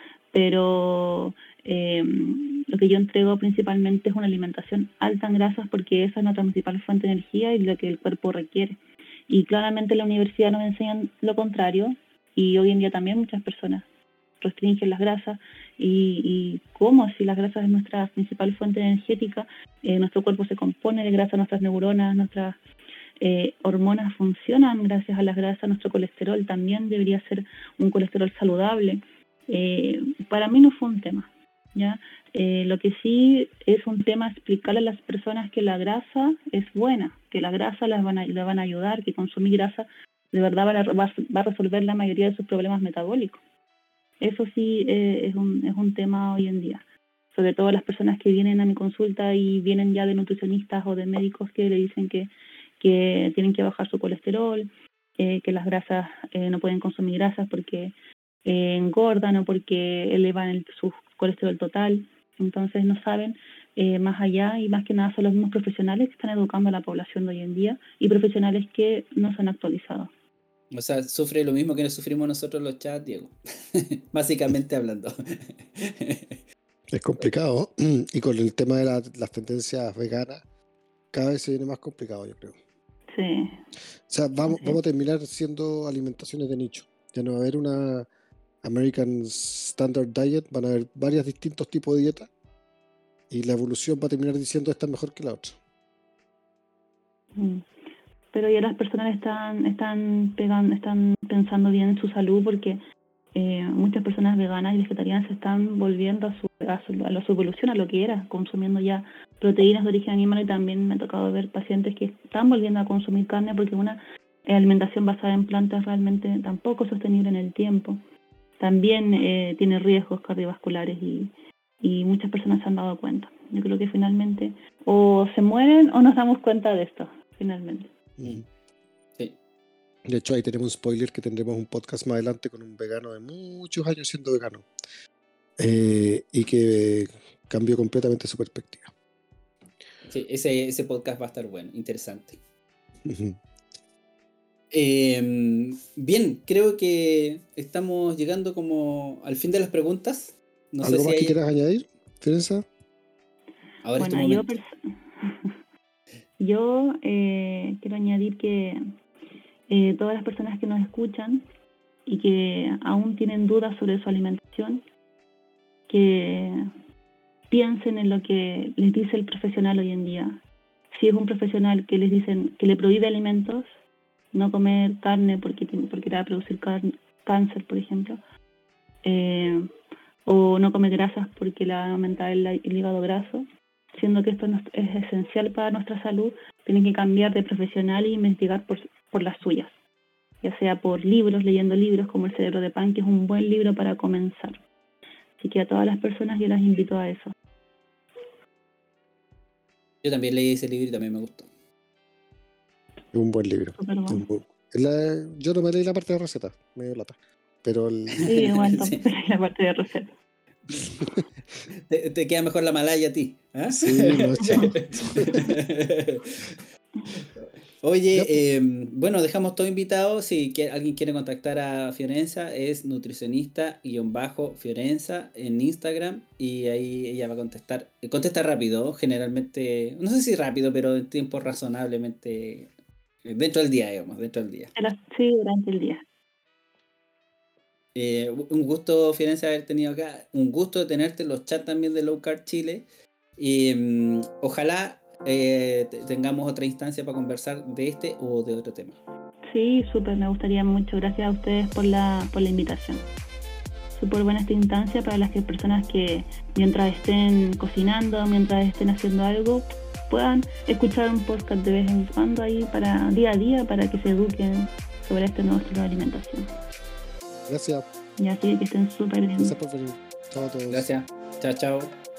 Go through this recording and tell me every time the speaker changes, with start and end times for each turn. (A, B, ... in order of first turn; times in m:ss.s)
0:00.3-0:08.8 A
0:09.3-0:13.9 A
0:14.4-0:22.6 A
0:23.2-0:43.4 A
0:44.2-0:57.9 A
0:58.5-1:10.1 A
1:10.7-1:16.4 B
1:16.9-1:20.4 C
1:21.1-1:22.6 C
1:23.1-1:23.6 A
1:24.1-1:28.1 C
1:24.5-1:24.8 A
1:28.6-1:32.3 C
1:33.3-1:35.6 C
1:37.4-1:37.6 A
1:38.3-1:42.8 A
1:43.4-1:58.0 A
1:58.6-2:07.9 A
2:08.2-2:08.4 C
2:10.1-2:14.7 C
2:15.6-2:18.9 C
2:20.1-2:22.4 B
2:23.0-2:23.4 C
2:24.7-2:31.4 B
2:30.8-2:32.7 C
2:33.8-2:34.5 B
2:34.0-2:34.7 A
2:35.2-2:35.5 A
2:36.4-2:38.8 A
2:39.7-2:41.4 A
2:42.1-2:44.8 A
2:45.9-2:46.6 A
2:47.5-2:53.7 A
2:54.3-2:58.2 A
2:59.0-2:59.6 A
3:00.2-3:03.5 A
3:04.0-3:09.8 A
3:10.4-3:14.6 A
3:15.4-3:17.3 A
3:20.0-3:21.5 B
3:23.1-3:28.3 C
3:23.8-3:24.2 A
3:28.2-3:29.0 B
3:28.3-3:30.1 A
3:30.7-3:31.0 B
3:31.0-3:31.3 C
3:31.9-3:36.6 B
3:33.7-3:35.4 C
3:37.8-3:52.7 B
3:53.2-3:54.7 B
3:54.8-3:56.0 A
3:58.0-4:02.9 B
4:03.4-4:09.0 B
4:09.5-4:13.0 A
4:13.9-4:26.5 A
4:27.5-4:27.9 C
4:28.2-4:29.5 A
4:29.4-4:30.9 C
4:30.7-4:31.9 B